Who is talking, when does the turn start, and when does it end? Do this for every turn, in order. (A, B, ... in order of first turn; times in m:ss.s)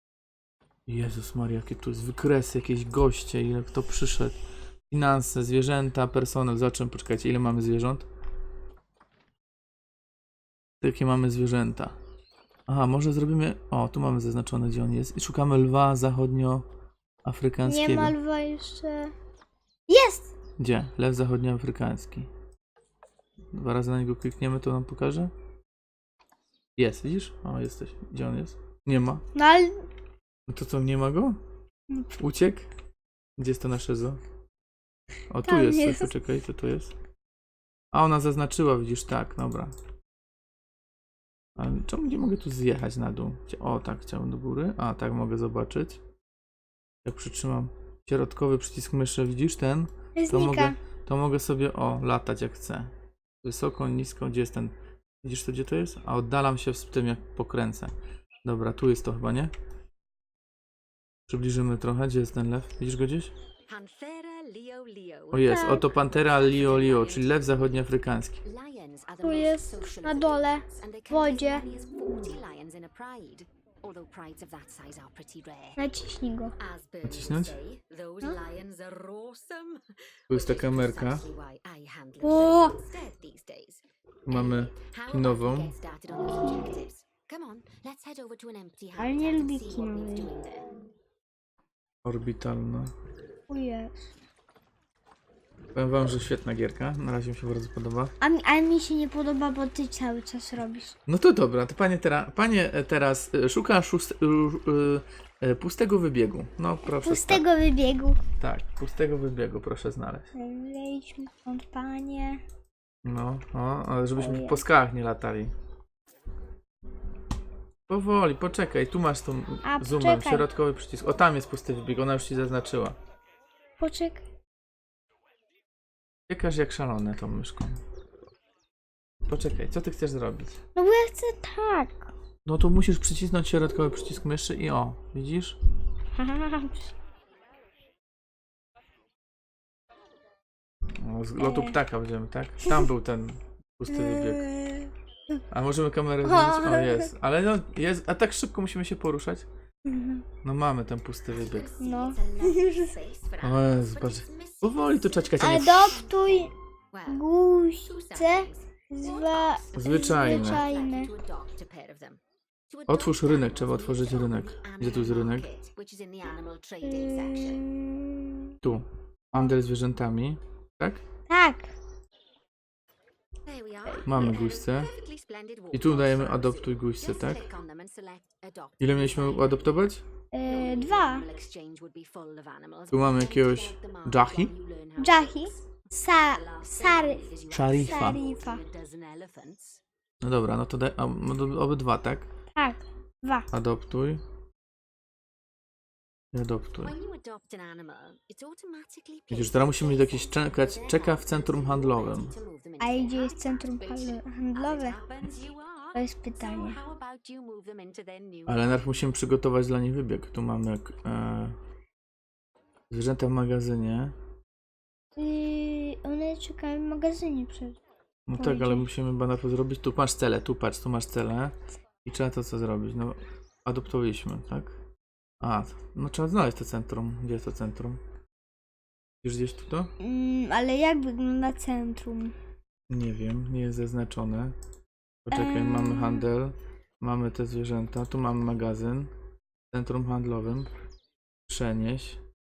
0:00.9-0:04.4 A
0:04.9-0:08.1 A
0:10.8-0:12.0 A
0:12.7-0:16.7 A
0:17.2-0:18.2 A
0:17.6-0:19.1 B
0:19.9-0:20.3 B
0:20.6-0:22.3 A
0:23.5-0:25.3 A
0:26.8-0:29.2 A
0:29.4-0:29.9 B
0:30.5-0:31.4 A
0:31.9-0:32.2 B
0:32.2-0:32.7 A
0:33.4-0:34.2 A
0:35.3-0:36.9 A
0:35.4-0:36.1 B
0:37.9-0:39.7 A
0:41.6-0:46.0 A
0:47.0-0:52.9 A
0:50.2-0:50.8 B
0:53.4-0:59.5 A
1:01.3-1:03.3 A
1:03.7-1:07.5 C
1:05.3-1:08.4 A
1:05.4-1:05.9 B
1:08.4-1:15.8 C
1:09.2-1:11.6 B
1:15.8-1:16.6 B
1:16.6-1:30.7 C
1:17.0-1:17.6 A
1:20.3-1:21.3 A
1:22.2-1:22.8 B
1:24.3-1:25.8 A
1:29.0-1:30.3 B
1:32.0-1:32.9 A
1:33.5-1:34.1 B
1:35.8-1:38.1 A
1:38.2-1:41.0 B
1:41.1-1:47.5 A
1:46.9-1:48.2 B
1:48.4-1:50.3 A
1:50.4-1:52.4 B
1:53.0-1:55.5 A
1:54.2-1:54.6 B
1:57.9-2:03.0 A
1:59.6-2:00.5 B
2:03.8-2:04.2 B
2:06.3-2:07.8 A
2:09.2-2:10.6 A
2:10.8-2:12.1 B
2:12.5-2:15.6 A
2:16.2-2:16.9 B
2:20.9-2:24.4 A
2:21.4-2:21.8 B
2:23.9-2:25.4 B
2:25.5-2:29.5 A
2:26.2-2:27.1 B
2:29.8-2:30.2 B
2:30.4-2:31.7 A
2:31.3-2:47.7 C
2:31.8-2:32.9 B
2:33.4-2:36.0 A
2:35.4-2:36.5 B
2:37.1-2:41.1 B
2:39.7-2:40.6 A
2:42.9-2:45.5 A
2:46.8-2:48.5 B
2:48.6-2:51.0 A
2:51.3-2:51.7 B
2:53.4-2:59.9 C
2:54.0-2:54.9 A
2:55.7-2:57.4 A
2:58.8-3:00.0 A
3:00.3-3:01.2 B
3:00.5-3:09.8 C
3:02.9-3:04.5 A
3:05.0-3:08.6 B
3:07.5-3:08.2 A
3:10.2-3:12.3 A
3:12.6-3:13.5 B
3:13.5-3:14.2 A
3:16.3-3:17.0 A
3:16.8-3:28.8 C
3:19.3-3:22.3 A
3:22.8-3:25.0 B
3:26.0-3:26.8 B
3:28.5-3:31.6 A
3:32.9-3:34.2 A
3:35.2-3:37.8 B
3:38.3-3:44.8 A
3:38.4-3:38.9 B
3:45.4-3:48.0 A
3:49.2-3:49.9 A
3:50.0-3:52.3 B
3:52.9-3:54.6 A
3:55.2-3:59.1 A
3:55.3-3:56.3 B
3:59.7-4:00.7 A
4:01.5-4:02.2 A